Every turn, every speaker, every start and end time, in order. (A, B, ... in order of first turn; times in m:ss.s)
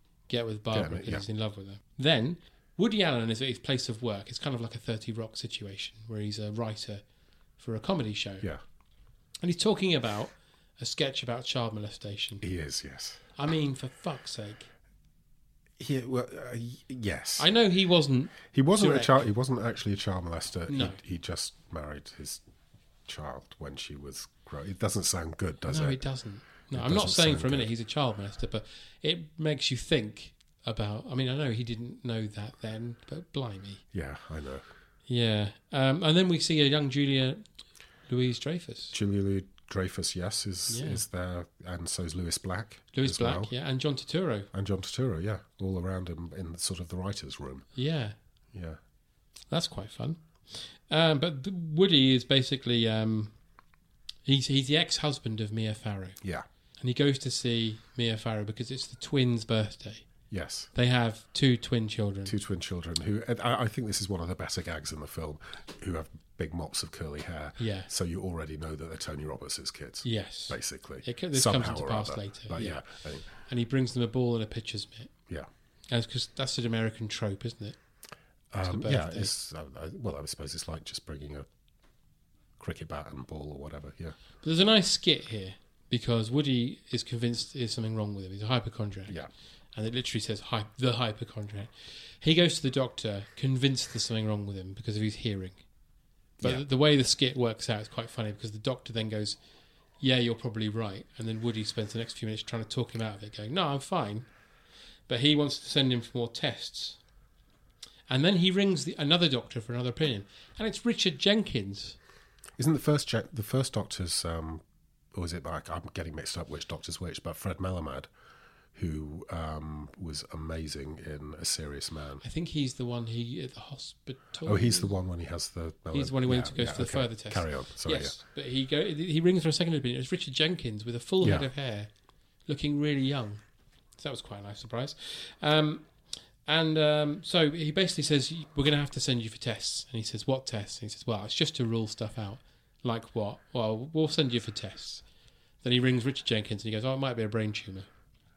0:00.3-0:07.0 A
0:00.7-0:01.2 B
0:07.6-0:08.5 A
0:09.4-0:12.4 A
0:12.4-0:13.2 B
0:13.4-0:14.7 A
0:15.8-0:17.5 B
0:17.4-0:19.3 A
0:18.5-0:22.4 B
0:20.7-0:21.0 A
0:23.1-0:26.0 B
0:25.7-0:33.8 A
0:26.7-0:27.7 B
0:33.9-0:34.7 B
0:35.1-0:37.4 A
0:38.1-0:39.0 A
0:38.9-0:43.5 B
0:40.7-0:41.0 A
0:42.9-0:44.5 A
0:44.5-0:47.7 B
0:47.8-0:48.2 A
0:48.5-0:48.8 B
0:49.5-0:53.4 A
0:54.3-0:56.2 A
0:56.8-1:00.1 A
1:00.3-1:00.7 B
1:00.7-1:02.3 A
1:02.3-1:13.4 B
1:07.6-1:07.9 A
1:10.0-1:12.8 A
1:13.5-1:15.1 A
1:15.9-1:17.8 A
1:18.5-1:21.5 B
1:18.7-1:19.3 A
1:22.6-1:24.2 B
1:24.4-1:29.2 A
1:29.8-1:35.6 A
1:36.4-1:39.4 A
1:40.0-1:44.3 A
1:45.1-1:47.0 A
1:48.1-1:52.0 A
1:52.6-1:58.1 B
1:58.7-2:02.2 B
2:02.2-2:04.9 A
2:04.4-2:08.2 B
2:05.9-2:11.9 A
2:11.2-2:11.5 B
2:12.5-2:13.4 A
2:14.0-2:25.0 A
2:25.6-2:27.9 A